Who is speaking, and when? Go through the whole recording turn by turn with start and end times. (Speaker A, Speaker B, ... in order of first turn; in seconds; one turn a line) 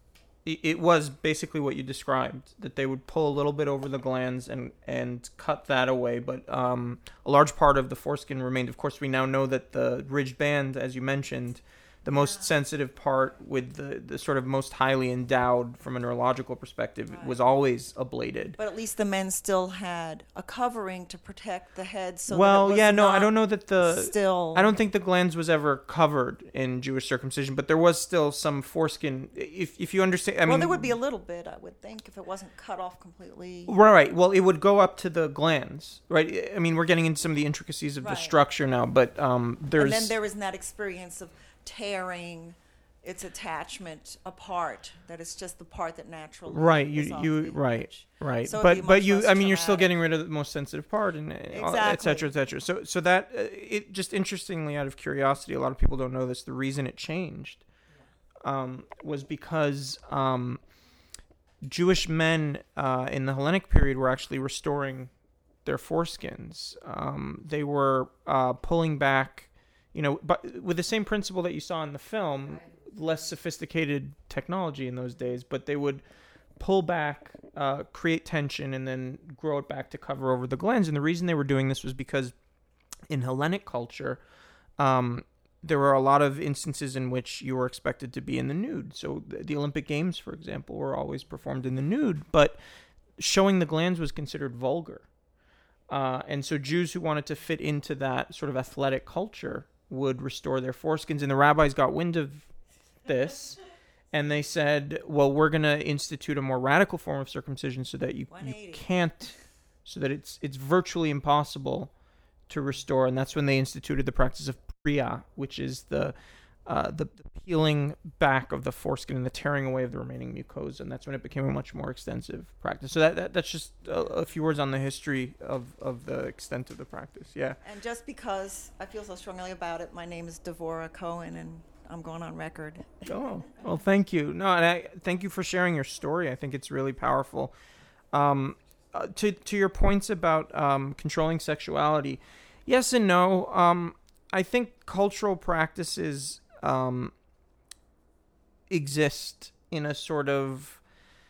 Speaker A: 0.4-18.6
Speaker B: 12.1-12.6
Speaker B: 17.1-17.4
Speaker B: 18.6-24.7
Speaker A: 22.3-31.0
Speaker B: 30.4-33.7
Speaker A: 33.7-40.1
Speaker B: 38.0-38.4
Speaker B: 39.8-49.9
Speaker A: 46.5-57.7
Speaker B: 51.5-52.3
Speaker A: 58.4-60.7
Speaker A: 61.6-65.1
Speaker A: 65.6-76.0
Speaker B: 72.5-72.8
Speaker A: 76.5-82.3
Speaker A: 83.1-84.2
Speaker A: 84.8-92.6
Speaker A: 93.2-95.1
Speaker A: 95.9-102.5
Speaker A: 103.0-103.6
Speaker A: 104.1-111.9
Speaker B: 108.3-108.9
Speaker A: 112.5-127.6
Speaker B: 127.6-133.1
Speaker A: 133.1-137.5
Speaker A: 138.1-147.1
Speaker A: 148.7-150.9